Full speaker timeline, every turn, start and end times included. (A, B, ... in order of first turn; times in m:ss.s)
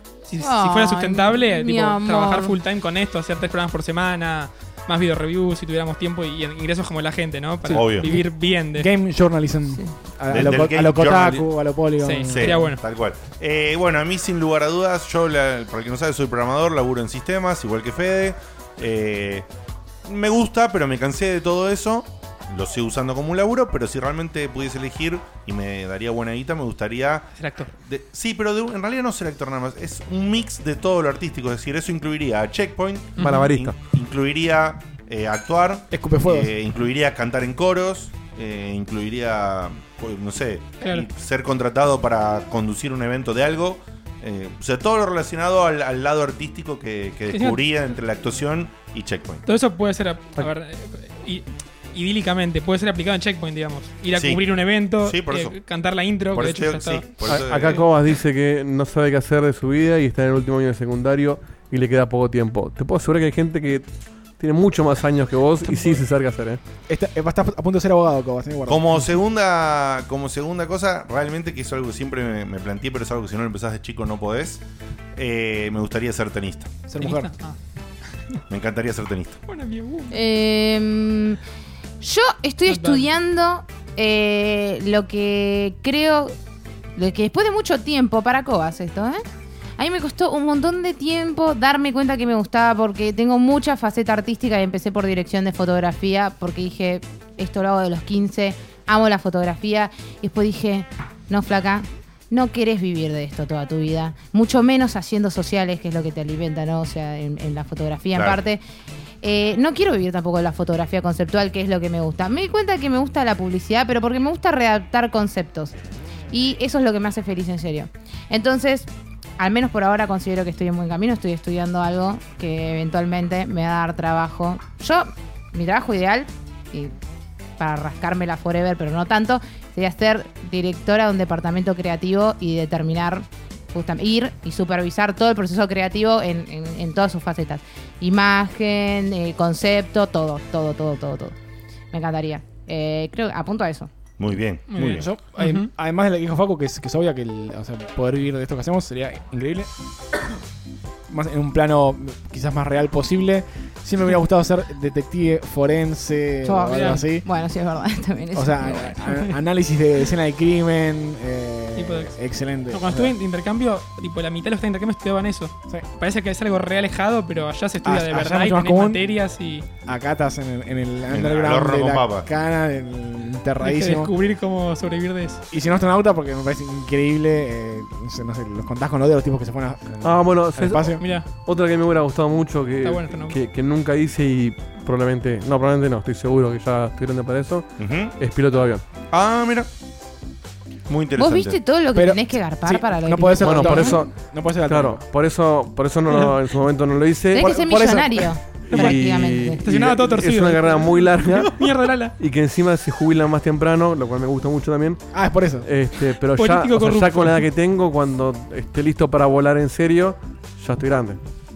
0:00.3-0:08.9 A
0:00.4-0:02.6 B
0:07.7-0:08.2 C
0:07.7-0:08.1 D
0:08.8-0:12.6 C
0:10.3-0:11.5 D
0:12.0-0:12.8 A
0:12.3-0:19.5 D
0:20.0-0:27.3 D
0:27.4-0:27.7 A
0:27.8-0:49.4 D
0:33.2-0:33.5 A
0:33.2-0:33.8 E
0:35.9-0:36.5 C
0:40.8-0:41.1 A
0:47.3-0:47.6 A
0:49.5-0:57.0 A
0:54.2-0:54.4 D
0:55.0-0:55.6 D
0:56.3-0:57.9 D
0:57.3-1:03.9 E
1:04.4-1:06.6 E
1:05.7-1:06.0 A
1:06.9-1:09.1 C
1:08.7-1:14.6 D
1:15.2-1:16.7 D
1:16.9-1:17.3 C
1:17.0-1:17.6 A
1:18.5-1:19.4 D
1:19.5-1:20.1 A
1:20.1-1:21.4 B
1:22.0-1:26.4 B
1:22.7-1:23.1 A
1:27.0-1:29.2 B
1:29.8-1:48.6 B
1:48.2-1:48.4 D
1:49.2-1:55.8 B
1:56.3-2:06.9 B
2:07.6-2:21.4 B
2:21.9-2:23.9 B
2:24.2-2:25.1 D
2:24.7-2:25.7 A
2:24.9-2:29.7 C
2:31.1-2:37.2 C
2:36.4-2:39.1 B
2:36.7-2:37.0 A
2:38.4-2:43.1 C
2:41.8-2:42.2 A
2:42.7-2:49.6 A
2:47.8-2:49.0 C
2:49.9-2:54.1 C
2:51.1-2:52.3 D
2:53.6-2:55.4 A
2:55.5-3:01.0 C
3:00.0-3:08.8 E
3:01.0-3:01.3 A
3:02.8-3:03.4 A
3:07.8-3:08.2 D
3:09.1-3:09.7 D
3:10.9-3:11.6 D
3:11.2-3:14.0 B
3:12.0-3:15.0 C
3:13.4-3:18.1 E
3:17.3-3:19.6 B
3:17.4-3:18.3 C
3:18.6-3:21.6 E
3:19.6-3:22.2 A
3:22.2-3:25.1 E
3:25.1-3:25.7 C
3:25.6-3:31.2 E
3:26.4-3:27.4 A